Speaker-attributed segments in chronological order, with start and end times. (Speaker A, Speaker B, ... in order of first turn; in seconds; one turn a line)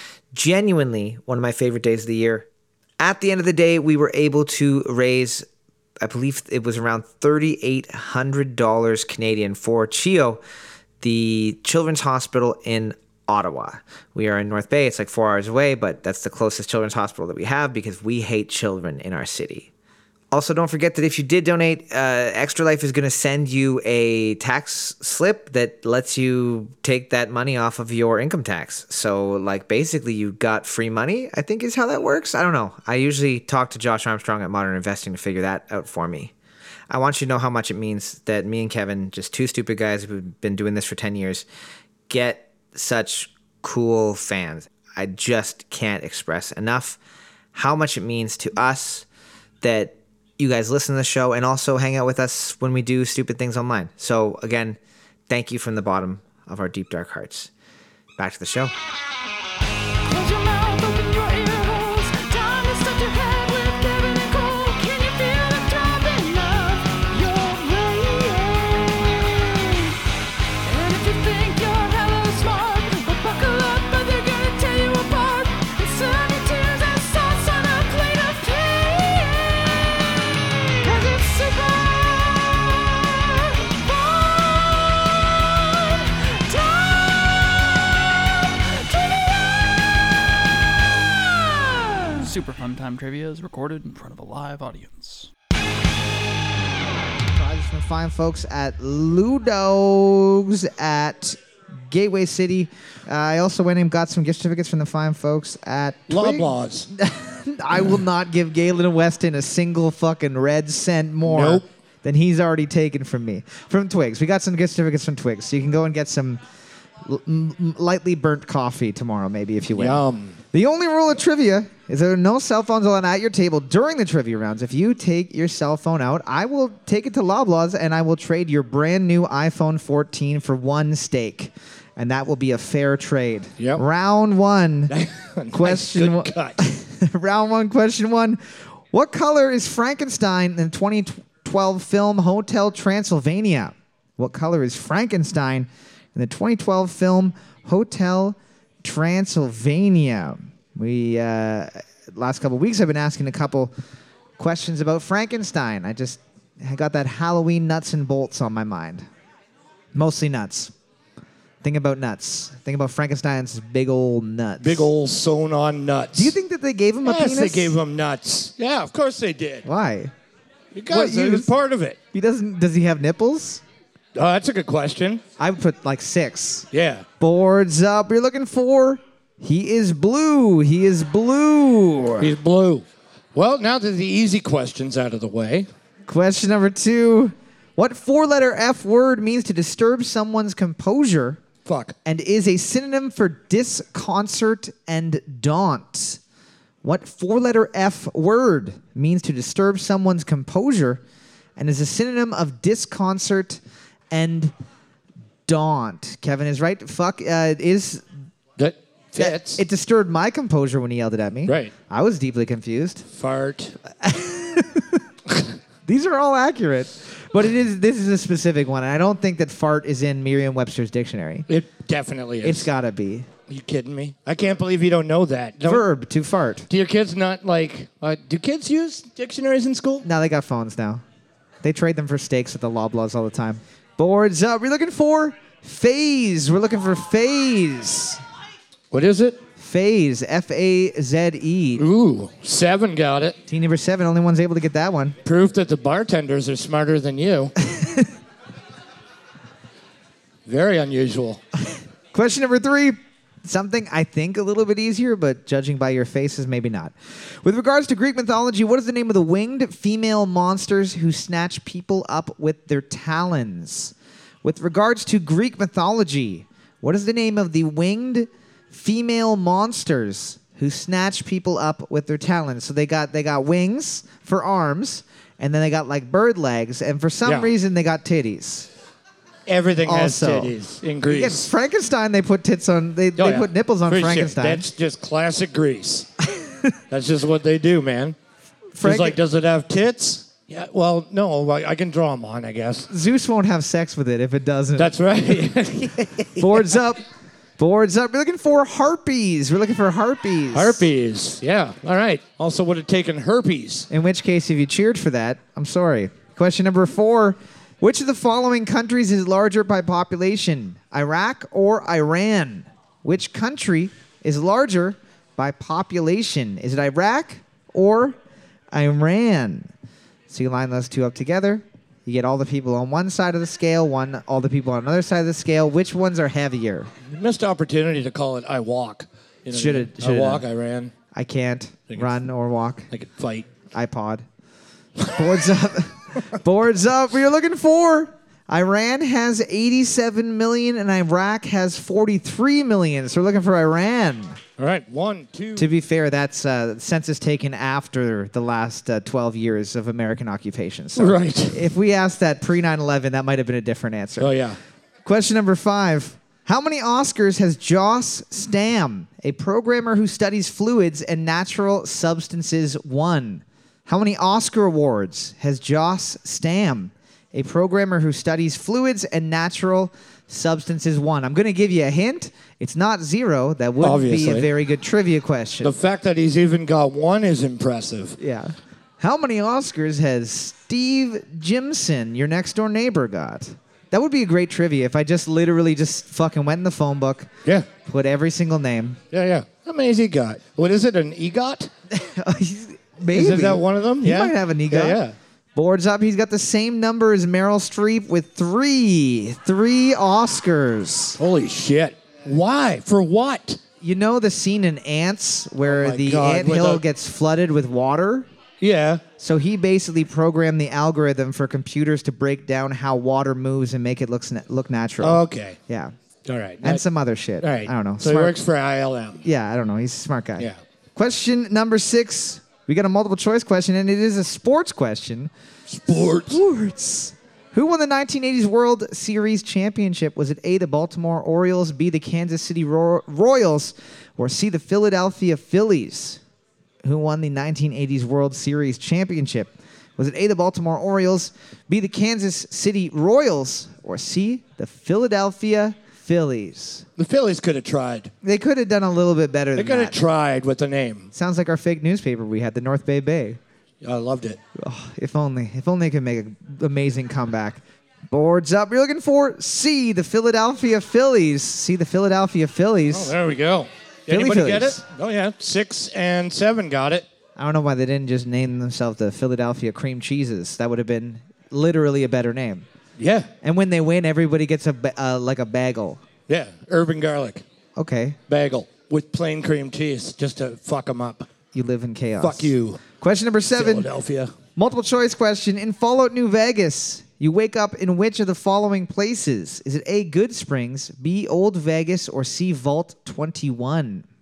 Speaker A: 0.3-2.5
Speaker A: 3.0-5.5
Speaker A: 6.0-10.4
Speaker A: 11.0-19.7
Speaker A: 20.3-36.3
Speaker A: 36.9-41.5
Speaker A: 42.1-47.0
Speaker A: 47.5-49.0
Speaker A: 49.6-54.8
Speaker A: 55.3-57.5
Speaker A: 58.2-58.7
Speaker B: 60.0-70.0
Speaker B: 70.6-80.2
Speaker B: 80.8-90.0
Speaker B: 91.2-92.2
Speaker C: 92.2-95.3
Speaker A: 97.2-116.4
Speaker D: 106.1-106.9
Speaker D: 111.2-111.6
Speaker A: 117.0-134.9
Speaker D: 119.7-120.4
Speaker D: 133.6-133.8
Speaker D: 134.9-136.6
Speaker A: 135.5-138.4
Speaker A: 138.9-153.7
Speaker A: 154.4-159.1
Speaker A: 159.9-160.7
Speaker A: 161.6-164.9
Speaker D: 164.6-166.3
Speaker A: 166.1-167.8
Speaker D: 167.0-169.6
Speaker A: 169.6-170.1
Speaker D: 170.7-172.0
Speaker A: 170.9-171.5
Speaker A: 172.1-173.6
Speaker D: 174.1-175.2
Speaker A: 175.4-176.7
Speaker D: 176.7-177.0
Speaker A: 177.2-182.3
Speaker D: 182.2-185.7
Speaker A: 186.1-191.4
Speaker D: 191.6-191.9
Speaker A: 192.0-196.2
Speaker A: 196.8-201.0
Speaker A: 201.6-203.6
Speaker A: 204.1-204.5
Speaker A: 205.4-208.0
Speaker D: 208.6-209.6
Speaker A: 209.2-213.1
Speaker D: 211.4-211.7
Speaker D: 213.1-213.8
Speaker A: 214.0-215.0
Speaker A: 215.8-221.5
Speaker D: 221.5-222.7
Speaker A: 222.4-223.3
Speaker D: 223.5-225.8
Speaker A: 225.6-226.7
Speaker D: 226.7-230.0
Speaker A: 230.0-231.0
Speaker A: 231.6-238.2
Speaker D: 238.9-239.4
Speaker A: 239.6-241.8
Speaker D: 241.8-243.4
Speaker A: 243.5-245.2
Speaker D: 245.2-247.5
Speaker A: 247.6-248.1
Speaker D: 250.4-251.4
Speaker A: 252.1-278.7
Speaker D: 277.2-277.5
Speaker D: 279.5-281.5
Speaker A: 279.9-280.5
Speaker A: 281.1-284.6
Speaker D: 283.2-286.1
Speaker D: 286.9-288.1
Speaker A: 288.7-289.2
Speaker D: 288.8-292.9
Speaker A: 292.9-294.9
Speaker D: 294.8-296.8
Speaker A: 296.4-297.0
Speaker A: 297.6-300.9
Speaker D: 300.5-303.9
Speaker A: 303.9-318.2
Speaker A: 318.7-319.7
Speaker A: 320.3-326.9
Speaker D: 327.0-330.9
Speaker A: 329.5-330.4
Speaker A: 331.1-332.9
Speaker D: 332.9-333.5
Speaker A: 333.7-334.2
Speaker D: 335.0-335.4
Speaker A: 335.1-344.4
Speaker D: 344.6-345.7
Speaker A: 345.6-354.3
Speaker D: 350.9-351.7
Speaker D: 354.2-354.6
Speaker A: 355.0-375.7
Speaker D: 373.8-374.5
Speaker D: 375.6-378.2
Speaker A: 378.2-387.3
Speaker A: 387.8-389.0
Speaker D: 389.1-391.7
Speaker A: 391.9-395.0
Speaker D: 393.1-395.1
Speaker A: 395.5-401.2
Speaker D: 401.2-403.6
Speaker A: 403.8-408.3
Speaker D: 405.6-406.8
Speaker D: 408.6-409.0
Speaker A: 409.2-415.9
Speaker D: 415.0-415.6
Speaker D: 416.2-416.8
Speaker A: 416.6-418.4
Speaker D: 417.4-419.2
Speaker A: 419.2-425.3
Speaker D: 425.7-426.4
Speaker A: 426.0-436.2
Speaker A: 436.8-446.9
Speaker D: 447.0-448.1
Speaker A: 448.2-450.0
Speaker D: 449.5-451.1
Speaker A: 451.1-453.4
Speaker D: 453.8-454.4
Speaker A: 454.5-463.1
Speaker D: 462.9-467.0
Speaker A: 464.1-464.8
Speaker A: 467.4-472.6
Speaker D: 473.0-473.3
Speaker A: 473.4-476.0
Speaker D: 476.3-477.4
Speaker A: 477.8-478.2
Speaker D: 478.3-481.3
Speaker A: 481.5-483.9
Speaker D: 482.2-482.8
Speaker D: 483.5-484.3
Speaker A: 484.6-494.1